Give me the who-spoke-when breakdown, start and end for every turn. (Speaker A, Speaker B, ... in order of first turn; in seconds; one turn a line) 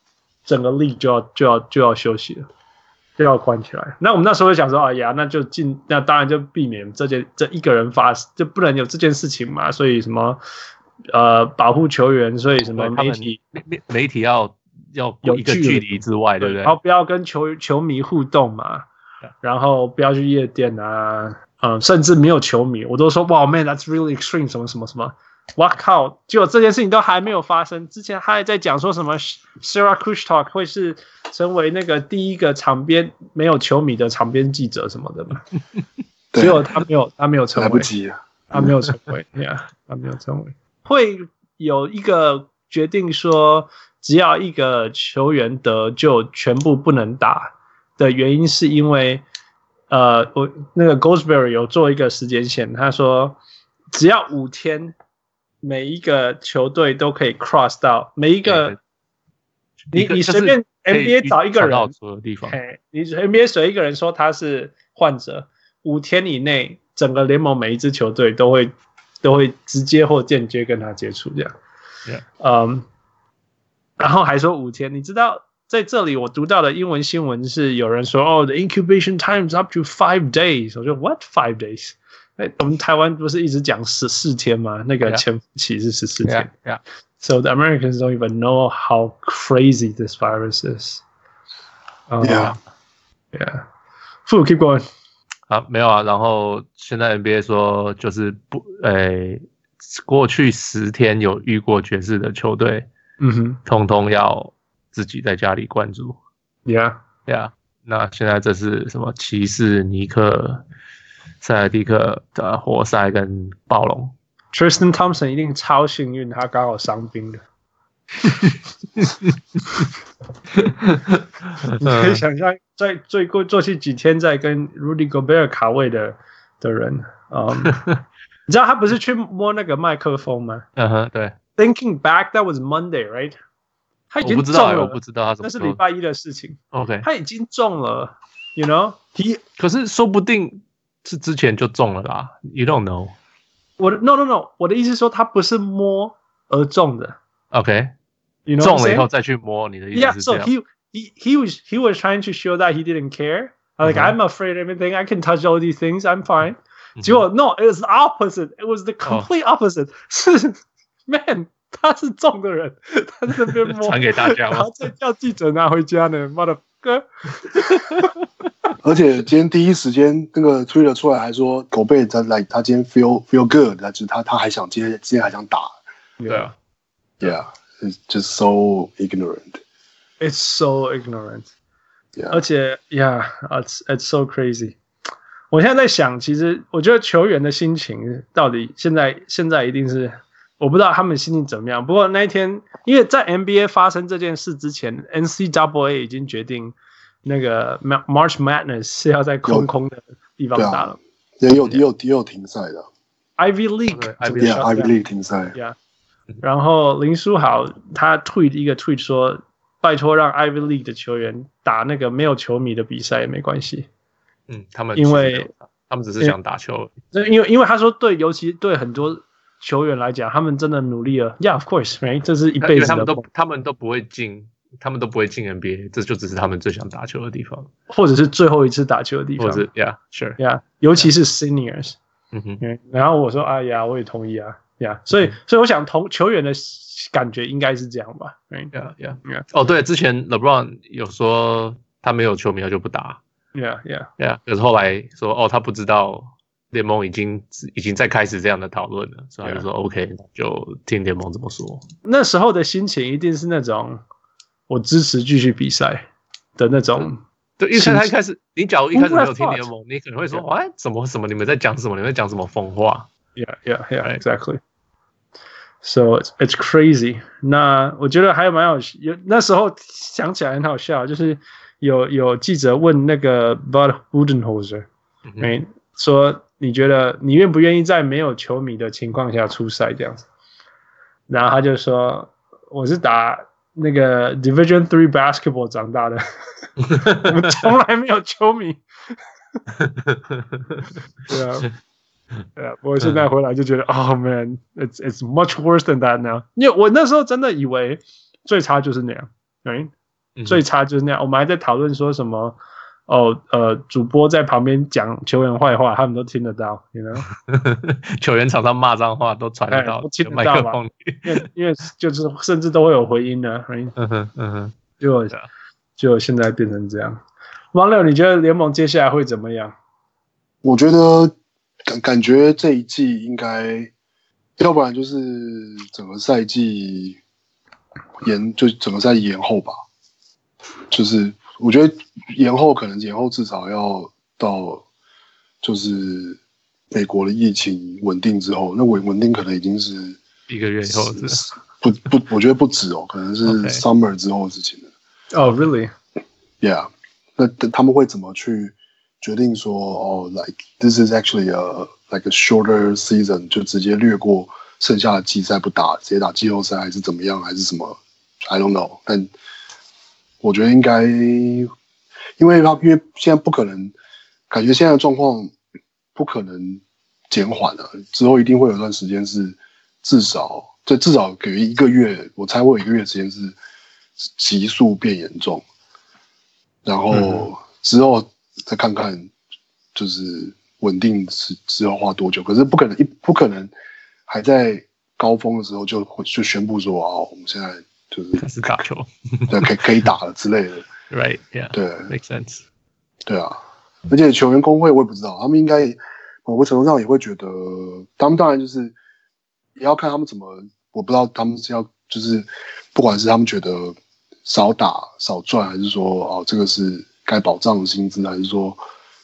Speaker A: 0.5-2.5
Speaker A: 3.2-10.4
Speaker A: 11.1-13.4
Speaker B: 12.6-16.7
Speaker A: 15.2-18.9
Speaker A: 19.4-35.4
Speaker C: 36.3-36.6
Speaker A: 36.4-37.9
Speaker C: 37.5-38.6
Speaker A: 38.5-49.2
Speaker A: 49.9-53.4
Speaker A: 53.9-54.9
Speaker A: 55.6-58.8
Speaker B: 58.4-58.8
Speaker A: 59.9-61.9
Speaker B: 59.9-62.5
Speaker A: 62.5-71.5
Speaker A: 72.4-72.8
Speaker A: 74.0-86.5
Speaker B: 86.2-86.8
Speaker A: 87.2-91.0
Speaker A: 92.1-92.5
Speaker C: 92.2-92.5
Speaker A: 93.3-93.6
Speaker A: 94.2-94.8
Speaker B: 95.5-102.9
Speaker A: 103.2-103.6
Speaker B: 103.7-106.2
Speaker A: 106.7-107.0
Speaker B: 107.3-110.6
Speaker B: 111.4-114.1
Speaker A: 114.5-117.4
Speaker B: 120.6-122.2
Speaker A: 121.8-127.8
Speaker B: 127.6-128.0
Speaker A: 128.5-130.7
Speaker B: 130.8-131.3
Speaker A: 131.6-133.3
Speaker A: 134.1-139.4
Speaker B: 134.2-135.8
Speaker B: 136.7-137.1
Speaker B: 139.6-143.1
Speaker A: 143.8-147.2
Speaker B: 147.5-147.9
Speaker A: 148.5-149.1
Speaker B: 148.6-150.5
Speaker A: 149.9-168.1
Speaker B: 153.8-154.2
Speaker B: 163.8-164.8
Speaker C: 168.8-175.7
Speaker A: 176.2-176.5
Speaker C: 177.2-179.6
Speaker A: 180.2-181.5
Speaker C: 182.2-182.4
Speaker A: 182.3-184.8
Speaker A: 185.5-201.0
Speaker C: 200.5-200.9
Speaker C: 201.4-202.9
Speaker A: 203.4-204.9
Speaker B: 203.9-204.6
Speaker C: 204.4-205.5
Speaker A: 206.4-213.9
Speaker B: 214.5-216.9
Speaker A: 214.9-215.5
Speaker A: 217.1-223.2
Speaker B: 222.6-227.7
Speaker A: 227.9-229.7
Speaker B: 229.4-230.4
Speaker A: 230.4-232.0
Speaker B: 232.3-232.6
Speaker A: 232.6-238.7
Speaker B: 238.7-243.2
Speaker A: 243.5-244.1
Speaker B: 244.2-251.8
Speaker A: 252.0-254.0
Speaker A: 254.7-256.1
Speaker A: 256.6-257.2
Speaker B: 257.6-263.1
Speaker A: 257.7-258.1
Speaker A: 258.9-259.7
Speaker A: 263.4-264.6
Speaker A: 265.8-274.9
Speaker B: 275.3-275.5
Speaker A: 275.4-280.2
Speaker A: 281.3-288.8
Speaker B: 287.0-287.4
Speaker B: 289.8-290.8
Speaker A: 291.3-291.7
Speaker A: 292.6-299.9
Speaker B: 300.4-300.6
Speaker A: 300.4-302.6
Speaker A: 303.1-307.2
Speaker B: 307.3-311.4
Speaker A: 309.7-313.9
Speaker B: 313.9-314.7
Speaker A: 315.0-315.4
Speaker A: 316.0-317.2
Speaker A: 317.7-319.7
Speaker C: 320.6-321.3
Speaker C: 321.9-323.9
Speaker C: 324.6-327.2
Speaker C: 328.2-329.8
Speaker C: 330.9-334.8
Speaker C: 335.6-336.4
Speaker C: 336.9-340.2
Speaker B: 340.5-341.5
Speaker C: 340.9-344.9
Speaker B: 343.4-343.8
Speaker A: 345.3-345.9
Speaker C: 346.6-359.3
Speaker C: 360.4-361.7
Speaker C: 362.4-363.9
Speaker C: 364.5-365.5
Speaker C: 366.1-373.6
Speaker C: 374.2-375.6
Speaker C: 376.8-379.3
Speaker B: 377.1-377.4
Speaker C: 379.9-383.7
Speaker C: 384.3-388.8
Speaker B: 388.4-390.1
Speaker C: 389.5-390.9
Speaker B: 391.1-392.6
Speaker C: 391.7-392.1
Speaker C: 393.2-393.6
Speaker C: 394.1-398.9
Speaker C: 399.8-408.8